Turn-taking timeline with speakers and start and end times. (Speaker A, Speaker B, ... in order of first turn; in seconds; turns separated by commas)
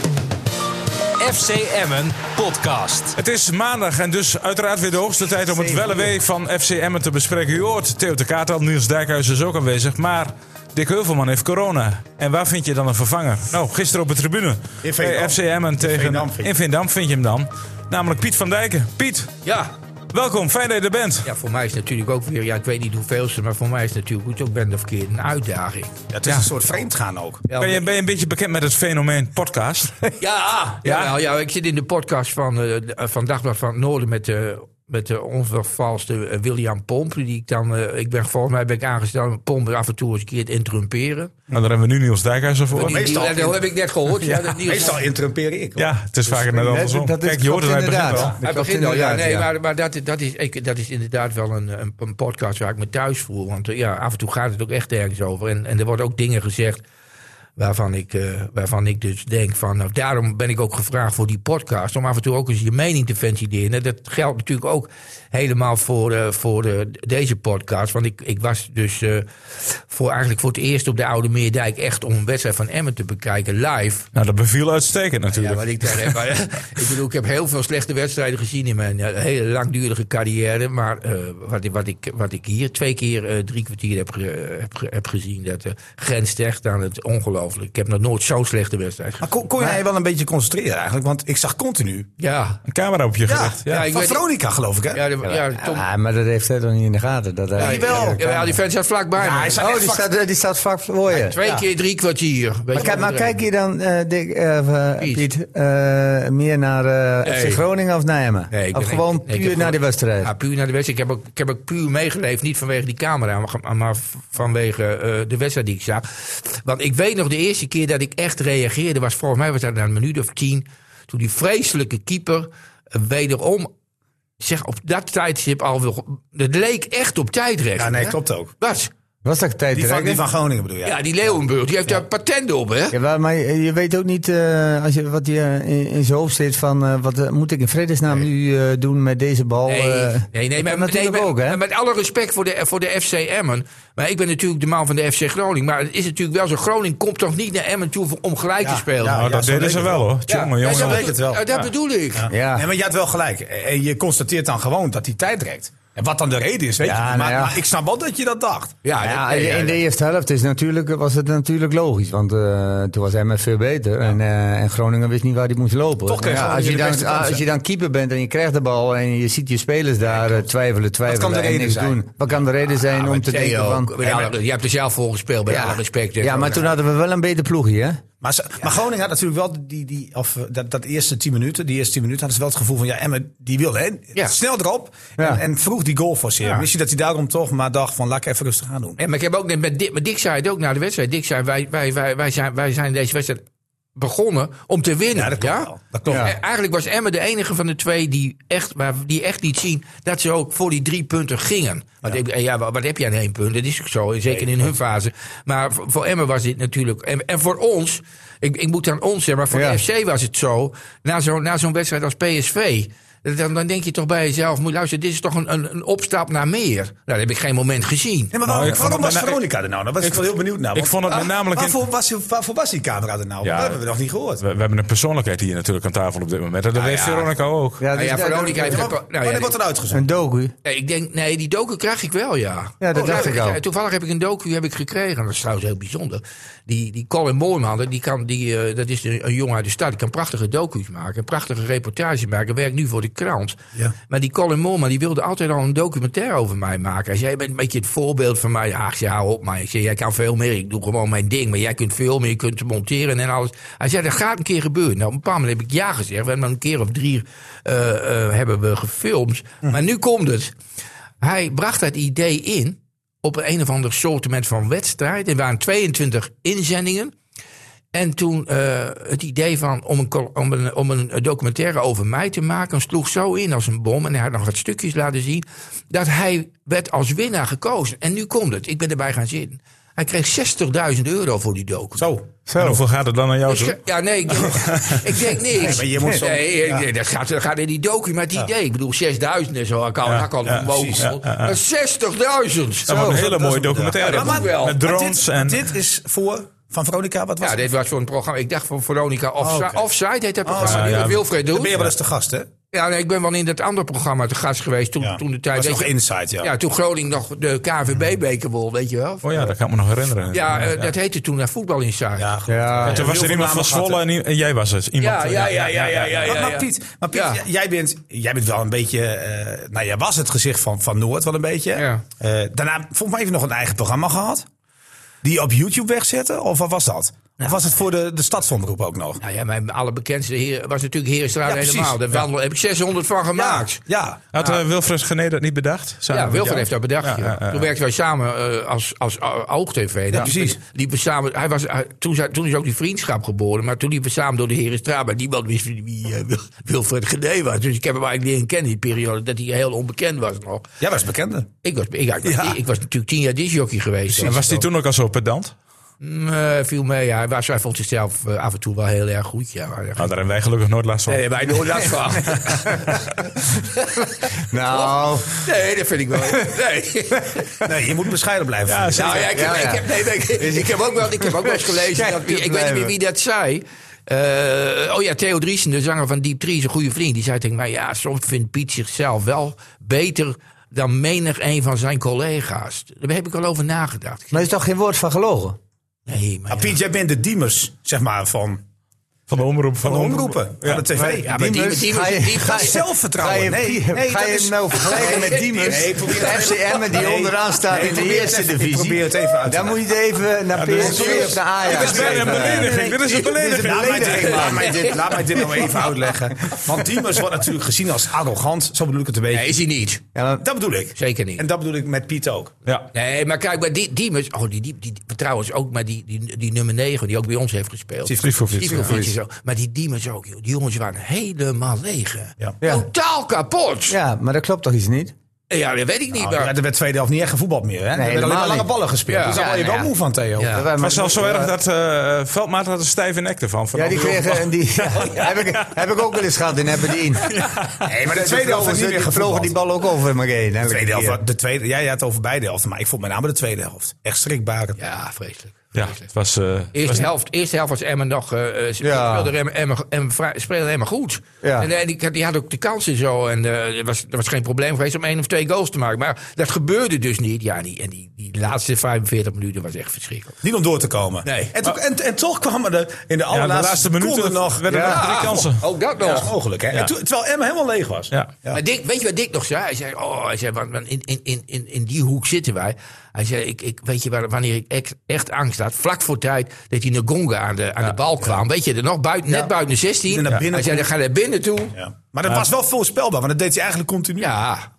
Speaker A: 1.2-3.2, Speaker B: 3.2-19.3, Speaker C: 14.8-16.5, Speaker D: 19.4-19.7, Speaker B: 20.1-21.3, Speaker D: 21.2-25.9, Speaker C: 26.1-27.4, Speaker B: 26.2-26.5, Speaker D: 27.5-27.9, Speaker B: 27.6-30.1, Speaker D: 30.2-41.3, Speaker B: 41.5-43.0, Speaker D: 42.7-45.0, Speaker C: 42.8-43.6, Speaker C: 44.6-46.4, Speaker B: 45.8-48.3, Speaker E: 46.3-49.5, Speaker C: 48.1-48.4, Speaker D: 48.4-56.8, Speaker D: 57.6-74.1, Speaker B: 74.1-76.2, Speaker D: 75.3-89.3, Speaker C: 89.2-92.1, Speaker D: 92.2-92.6, Speaker B: 92.7-93.8, Speaker C: 93.3-95.0, Speaker D: 93.7-94.2, Speaker D: 94.9-95.8, Speaker E: 95.3-98.6, Speaker D: 97.5-99.6, Speaker C: 97.6-98.2, Speaker C: 99.2-100.1, Speaker E: 99.6-101.3, Speaker D: 101.1-103.4, Speaker E: 102.7-110.3, Speaker D: 107.2-107.6, Speaker D: 108.5-123.7, Speaker D: 124.4-128.9, Speaker C: 127.8-128.5, Speaker E: 129.2-130.2, Speaker C: 129.7-131.0, Speaker D: 130.8-133.0, Speaker E: 132.9-141.6, Speaker D: 139.7-149.3, Speaker C: 148.6-158.8, Speaker B: 149.1-151.1, Speaker D: 150.3-152.3, Speaker E: 152.3-152.7, Speaker E: 156.8-157.6, Speaker D: 158.8-159.8, Speaker E: 159.0-174.1, Speaker C: 166.1-167.4, Speaker C: 170.1-170.4, Speaker C: 171.1-172.0, Speaker D: 172.8-176.7, Speaker C: 174.0-174.3, Speaker E: 175.5-178.0, Speaker C: 178.2-189.0, Speaker E: 185.2-185.4, Speaker D: 189.0-193.4, Speaker D: 194.0-218.3, Speaker C: 195.1-196.3, Speaker E: 196.1-196.3, Speaker C: 204.3-204.7, Speaker E: 209.5-209.8, Speaker C: 218.3-224.4, Speaker B: 218.4-219.4, Speaker B: 220.0-221.8, Speaker B: 223.4-223.8, Speaker B: 224.4-227.8, Speaker D: 226.8-227.3, Speaker E: 227.8-228.9, Speaker D: 227.9-229.6, Speaker C: 228.6-230.1, Speaker E: 229.9-230.6, Speaker D: 230.6-243.6, Speaker E: 232.8-233.6, Speaker C: 232.9-233.3, Speaker D: 244.1-260.5, Speaker D: 261.2-267.1, Speaker D: 267.9-282.1, Speaker C: 282.0-282.3, Speaker E: 282.5-282.8, Speaker B: 282.6-283.8, Speaker D: 283.5-293.1, Speaker B: 284.5-285.0, Speaker C: 285.5-286.9, Speaker E: 285.9-286.2, Speaker B: 290.1-291.6, Speaker C: 290.6-291.1, Speaker B: 292.9-295.7, Speaker E: 292.9-293.2, Speaker C: 293.0-297.6, Speaker D: 294.0-294.8, Speaker D: 297.4-301.7, Speaker C: 299.4-299.8, Speaker C: 300.4-302.5, Speaker B: 300.6-301.9, Speaker D: 302.7-309.5, Speaker C: 305.0-306.5, Speaker B: 309.2-310.9, Speaker D: 310.3-312.3, Speaker C: 312.2-314.0, Speaker E: 312.5-313.1, Speaker B: 312.9-316.3, Speaker D: 315.0-317.4, Speaker C: 315.9-324.5, Speaker D: 321.8-322.0, Speaker C: 325.2-329.2, Speaker D: 329.2-333.8, Speaker C: 331.5-332.2, Speaker C: 333.3-334.6, Speaker B: 334.3-337.7, Speaker D: 336.1-350.6, Speaker C: 340.1-340.6, Speaker C: 350.8-351.5, Speaker D: 351.6-354.5, Speaker C: 354.1-354.6, Speaker B: 354.2-355.5, Speaker D: 356.0-360.1, Speaker B: 360.0-361.9, Speaker D: 361.1-367.6, Speaker E: 364.5-365.4, Speaker C: 367.6-369.3, Speaker B: 368.7-369.7, Speaker D: 369.0-384.4, Speaker E: 369.3-372.9, Speaker E: 384.3-385.6, Speaker D: 386.1-386.8, Speaker C: 386.5-388.6, Speaker B: 389.3-390.9, Speaker C: 389.8-391.7, Speaker E: 390.9-405.7, Speaker D: 391.2-392.8, Speaker C: 392.4-399.8, Speaker D: 394.9-396.8, Speaker B: 400.5-404.5, Speaker C: 400.7-409.6, Speaker D: 401.0-401.4, Speaker D: 404.3-404.9, Speaker D: 409.3-410.0, Speaker E: 410.1-410.4, Speaker C: 410.4-412.5, Speaker D: 410.9-411.4, Speaker D: 412.9-424.0, Speaker C: 418.0-419.0, Speaker B: 418.2-419.1, Speaker E: 422.6-422.9, Speaker E: 423.9-425.1, Speaker D: 425.5-426.5, Speaker C: 426.2-430.6, Speaker E: 427.9-431.5, Speaker D: 429.1-429.4, Speaker D: 430.4-430.7, Speaker B: 430.8-435.3, Speaker E: 433.7-441.2, Speaker B: 437.3-437.8, Speaker C: 437.9-439.6, Speaker C: 440.7-444.8, Speaker D: 444.8-446.1, Speaker B: 445.7-447.1, Speaker D: 446.7-460.4, Speaker E: 448.8-449.3, Speaker E: 451.4-451.7, Speaker C: 460.4-465.4, Speaker D: 461.2-461.5, Speaker B: 463.3-465.6, Speaker E: 464.7-465.0, Speaker D: 464.9-466.3, Speaker C: 466.0-468.6, Speaker D: 468.5-481.8, Speaker C: 480.1-480.9, Speaker C: 481.8-484.3, Speaker B: 482.2-482.5, Speaker D: 484.2-484.7